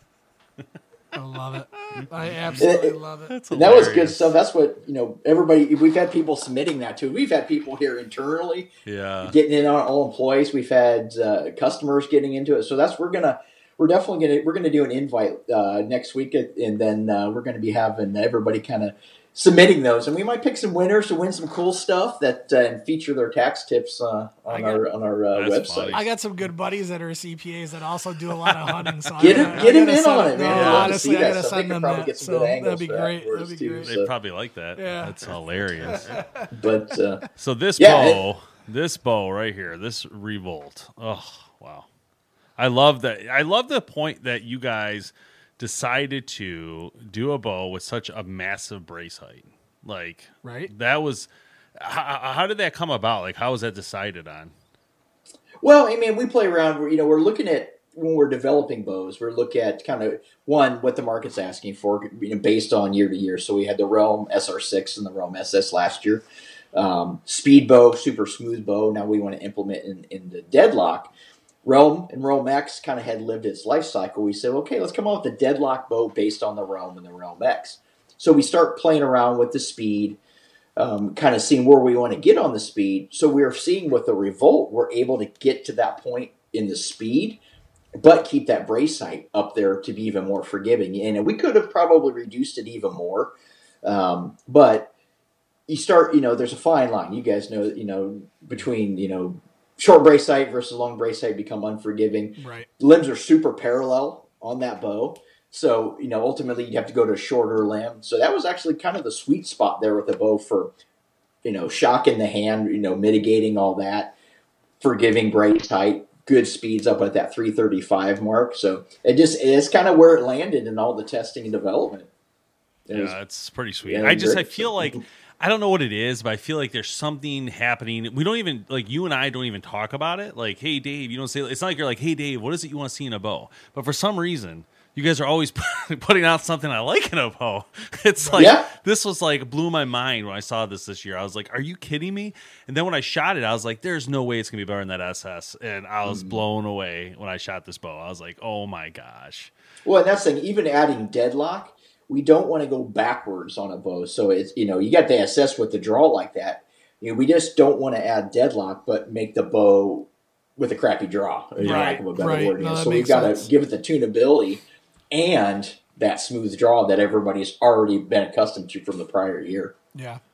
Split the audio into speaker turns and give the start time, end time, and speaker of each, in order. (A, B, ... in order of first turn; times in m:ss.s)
0:01.1-0:03.3 A
0:01.9-0:02.6 B
0:02.6-0:03.0 C
0:03.3-0:04.3 B
0:03.5-0:08.7 C
0:08.8-0:09.4 B
0:09.2-0:26.0 C
0:24.5-0:24.8 A
0:25.3-0:26.0 B
0:25.9-0:33.9 A
0:28.6-0:29.7 B
0:29.2-0:34.1 C
0:30.4-0:31.0 B
0:33.8-0:36.2 B
0:34.8-0:35.2 A
0:35.8-0:36.5 A
0:36.5-0:37.2 C
0:37.4-0:41.9 B
0:37.8-0:38.2 C
0:42.6-0:54.5 B
0:50.4-0:50.7 A
0:55.6-1:11.1 C
1:11.6-1:20.2 C
1:20.8-1:27.4 C
1:28.0-1:34.9 C
1:35.7-1:50.7 C
1:42.4-1:42.7 A
1:51.4-1:54.1 C
1:54.8-2:02.1 C
2:02.9-2:03.1 C
2:02.9-2:29.5 B
2:03.8-2:05.0 C
2:18.2-2:18.5 A
2:18.3-2:18.7 C
2:26.0-2:26.4 C
2:29.8-2:49.7 C
2:41.6-2:42.0 B
2:41.6-2:43.5 A
2:49.9-2:50.2 A